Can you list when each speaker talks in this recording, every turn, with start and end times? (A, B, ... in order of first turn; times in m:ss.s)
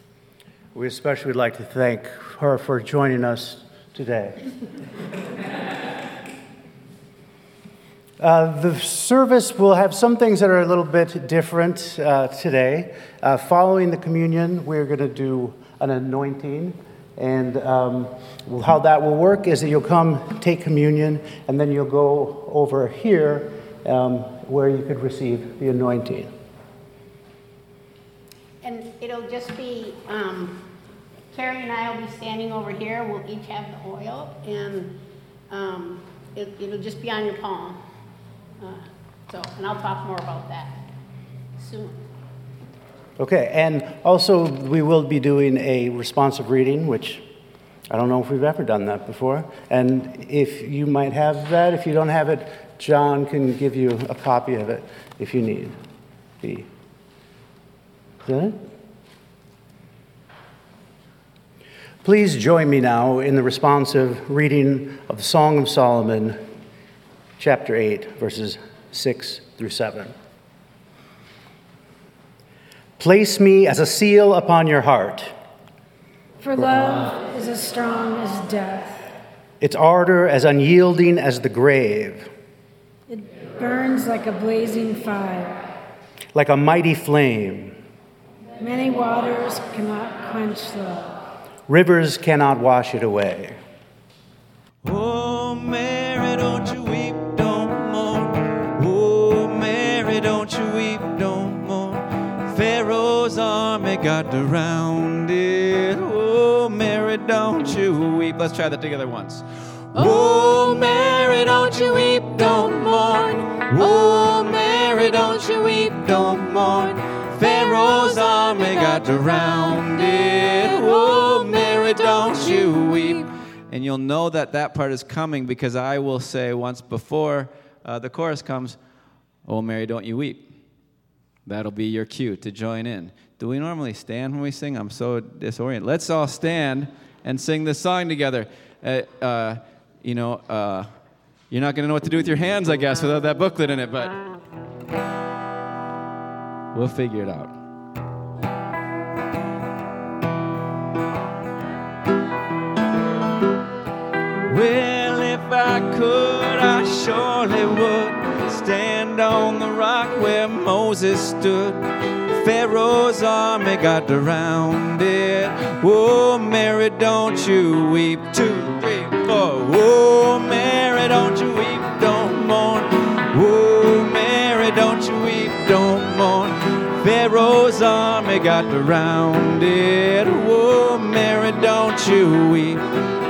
0:00.7-0:04.4 A
0:08.2-0:26.3 A
0:28.6-0:30.7 B
0:31.3-0:35.0 B
0:35.5-0:37.8 B
0:38.6-0:40.8 B
0:41.6-0:42.0 B
0:43.2-0:47.2 A
0:47.9-0:55.8 A
0:56.4-0:56.7 A
0:58.2-0:58.6 A
1:02.0-1:06.4 A
1:07.4-1:10.1 A
1:13.0-1:15.3 A
1:16.4-1:19.0 C
1:19.6-1:22.3 A
1:23.1-1:25.6 C
1:26.3-1:27.8 A
1:28.6-1:31.2 C
1:31.7-1:33.6 A
1:34.8-2:08.8 D
2:09.4-2:10.4 D
2:11.4-2:20.9 D
2:21.5-2:24.2 D
2:26.7-2:27.5 D
2:34.5-3:02.8 D